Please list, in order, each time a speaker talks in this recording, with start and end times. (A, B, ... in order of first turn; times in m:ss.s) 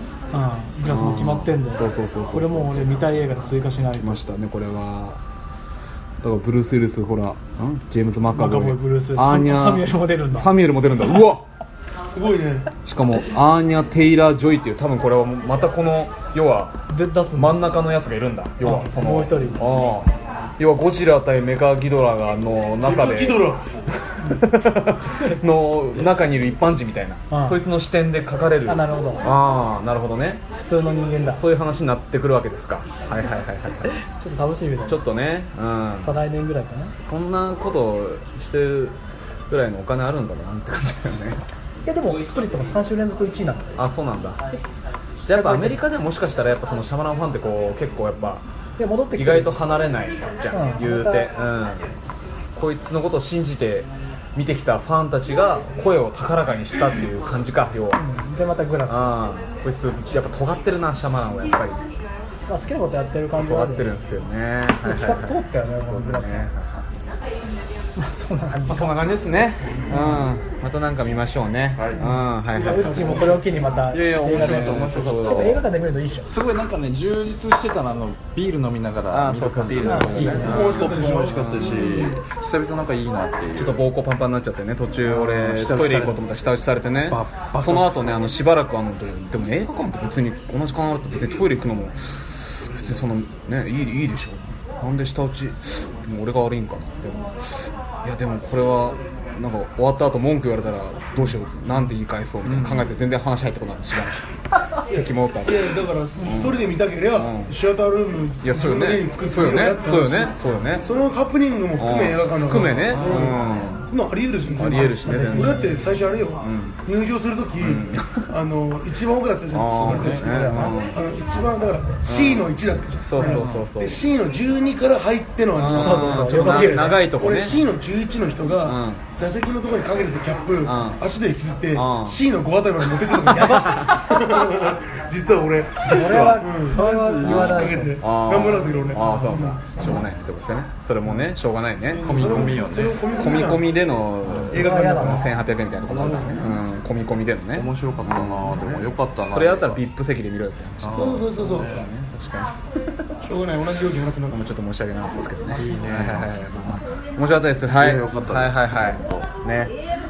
0:00.3-0:04.2 A
0:00.8-0:05.2 B
0:06.2-0:11.5 B
0:08.3-0:10.5 A
0:12.1-0:12.7 C
0:12.8-0:16.8 B
0:16.9-0:17.6 A
0:17.4-0:23.6 B
0:18.6-0:19.6 A
0:22.8-0:23.7 C
0:24.1-0:30.4 B
0:27.3-0:27.6 A
0:28.6-0:29.3 A
0:30.6-0:31.4 A
0:31.2-0:34.0 B
0:33.9-0:35.0 A
0:34.9-0:36.2 B
0:36.0-0:36.9 A
0:37.0-0:39.0 B
0:39.5-0:41.4 B
0:41.8-0:43.7 A
0:43.8-0:44.4 B
0:45.2-0:48.4 B
0:45.3-0:45.8 A
0:48.8-0:49.6 A
0:49.1-0:52.0 B
0:50.5-0:51.3 A
0:52.5-0:58.0 B
0:58.0-0:59.2 A
0:58.9-1:01.8 B
1:02.5-1:04.0 A
1:03.3-1:06.8 B
1:04.8-1:06.5 A
1:08.0-1:09.0 A
1:08.7-1:13.3 B
1:09.8-1:10.2 C
1:11.8-1:12.1 D
1:12.0-1:16.3 A
1:12.4-1:13.9 C
1:13.7-1:15.6 D
1:14.2-1:15.6 B
1:16.3-1:23.8 D
1:19.1-1:22.2 B
1:19.8-1:21.1 A
1:20.2-1:22.2 C
1:23.6-1:32.0 B
1:25.0-1:26.2 D
1:27.1-1:28.3 D
1:32.7-1:37.4 B
1:38.0-1:44.2 B
1:42.4-1:42.9 D
1:44.9-1:46.6 B
1:45.4-2:19.7 C
1:47.1-1:47.5 B
1:48.4-1:50.9 B
1:51.8-1:53.9 B
1:52.8-1:53.4 D
1:54.5-1:55.8 B
1:54.6-1:56.0 A
1:56.4-1:56.8 B
1:57.6-1:58.2 B
1:59.5-2:01.0 B
1:59.8-2:00.8 A
1:59.9-2:00.2 D
2:02.0-2:02.5 B
2:03.1-2:04.0 B
2:03.2-2:03.7 D
2:05.6-2:07.6 B
2:05.7-2:07.0 A
2:08.6-2:09.0 B
2:10.6-2:11.0 B
2:11.7-2:12.2 B
2:13.3-2:14.3 B
2:15.8-2:16.4 B
2:15.8-2:18.0 A
2:16.6-2:17.7 D
2:17.2-2:32.9 B
2:21.8-2:23.8 C
2:22.0-2:23.1 D
2:24.2-2:24.7 D
2:24.5-2:25.3 C
2:24.5-2:25.3 A
2:25.9-2:26.6 D
2:27.5-2:29.8 D
2:30.8-2:31.9 D
2:30.9-2:31.8 C
2:33.2-2:34.4 C
2:34.3-2:39.7 B
2:35.5-2:36.4 D
2:37.6-2:39.3 D